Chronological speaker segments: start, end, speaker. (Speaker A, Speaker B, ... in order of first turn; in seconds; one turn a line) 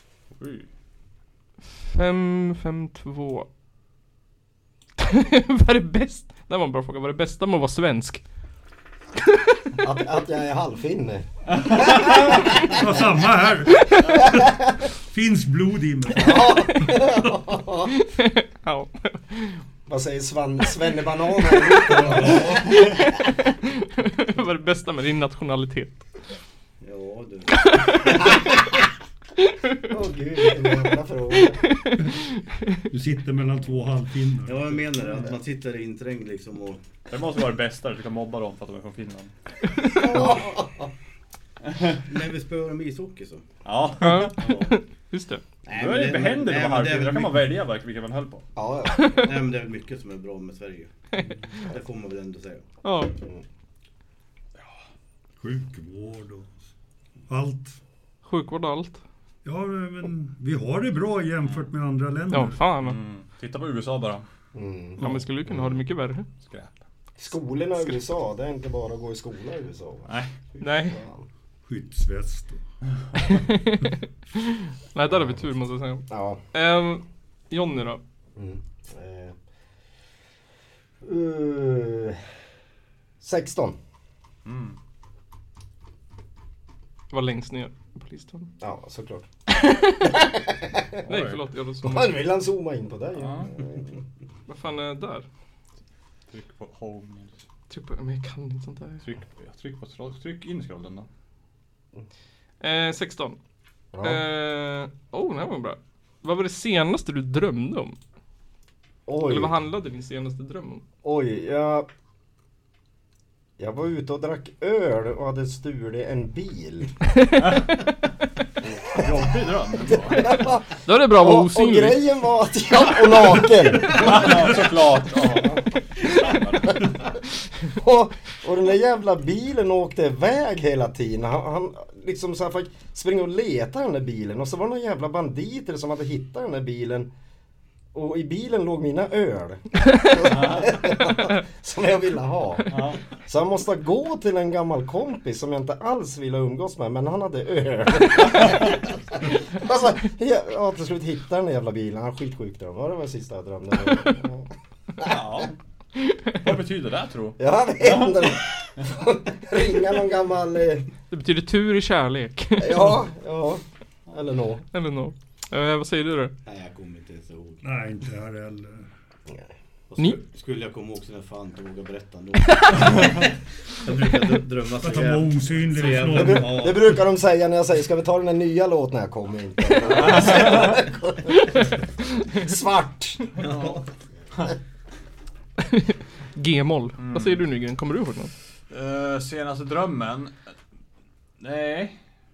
Speaker A: 0.4-0.7
Speaker B: 1.9-3.5
Speaker B: 5.0-8.2
Speaker C: 9.8-13.1
Speaker A: 11.6-12.0
Speaker D: 12.3-16.5
Speaker C: 16.2-17.9
Speaker B: 16.7-16.9
Speaker B: 17.9-19.6
Speaker C: 19.9-22.8
Speaker D: 21.9-22.8
Speaker B: 22.6-26.1
Speaker E: 26.8-28.3
Speaker B: 27.6-28.3
Speaker C: 29.9-31.6
Speaker B: 31.7-32.2
Speaker D: 32.9-34.9
Speaker E: 34.5-36.8
Speaker A: 37.1-39.3
Speaker C: 39.9-40.9
Speaker A: 41.6-42.0
Speaker E: 42.0-43.5
Speaker A: 43.6-44.6
Speaker B: 44.0-45.4
Speaker E: 44.4-44.7
Speaker E: 45.6-47.5
Speaker A: 45.7-48.4
Speaker C: 48.5-49.4
Speaker B: 48.9-49.2
Speaker E: 49.2-52.6
Speaker B: 52.8-53.1
Speaker D: 55.4-56.5
Speaker D: 57.3-57.8
Speaker B: 58.2-59.0
Speaker D: 59.4-62.6
Speaker B: 62.3-63.0
Speaker A: 62.8-64.2
Speaker C: 64.5-65.8
Speaker B: 65.0-66.3
Speaker A: 66.3-66.8
Speaker C: 67.2-71.2
Speaker A: 70.1-70.3
Speaker B: 70.6-71.0
Speaker D: 71.7-72.6
Speaker B: 73.2-78.0
Speaker C: 76.1-76.4
Speaker C: 78.3-79.4
Speaker C: 81.0-82.2
Speaker C: 83.2-83.8
Speaker A: 84.4-84.8
Speaker B: 87.1-88.5
Speaker C: 88.6-89.3
Speaker B: 89.5-90.1
Speaker C: 90.0-91.0
Speaker A: 91.0-91.4
Speaker B: 91.0-92.2
Speaker C: 91.8-94.0
Speaker A: 93.1-93.5
Speaker B: 94.5-95.2
Speaker A: 96.3-97.3
Speaker B: 97.7-99.0
Speaker A: 99.0-101.1
Speaker B: 102.6-103.4
Speaker C: 103.9-104.2
Speaker B: 104.0-108.0
Speaker C: 109.0-109.5
Speaker B: 109.2-110.8
Speaker C: 111.0-111.9
Speaker C: 113.6-117.0
Speaker A: 117.4-117.7
Speaker A: 118.8-120.5
Speaker C: 119.8-124.6
Speaker B: 120.8-122.0
Speaker A: 123.8-127.0
Speaker C: 125.2-126.7
Speaker C: 127.7-137.1
Speaker C: 137.9-154.5
Speaker A: 140.2-140.8
Speaker A: 142.7-143.0
Speaker A: 155.0-155.6
Speaker A: 156.4-158.3
Speaker C: 157.4-160.9
Speaker B: 161.1-162.9
Speaker C: 162.6-164.6
Speaker B: 164.7-166.3
Speaker E: 166.4-167.6
Speaker D: 167.6-168.9
Speaker E: 169.9-176.8
Speaker D: 174.8-176.8
Speaker C: 176.1-181.6
Speaker A: 179.8-180.8
Speaker C: 182.2-183.3
Speaker D: 183.4-183.8
Speaker E: 183.4-183.8
Speaker B: 185.7-188.3
Speaker A: 187.0-187.4
Speaker A: 188.7-190.5
Speaker A: 191.4-192.0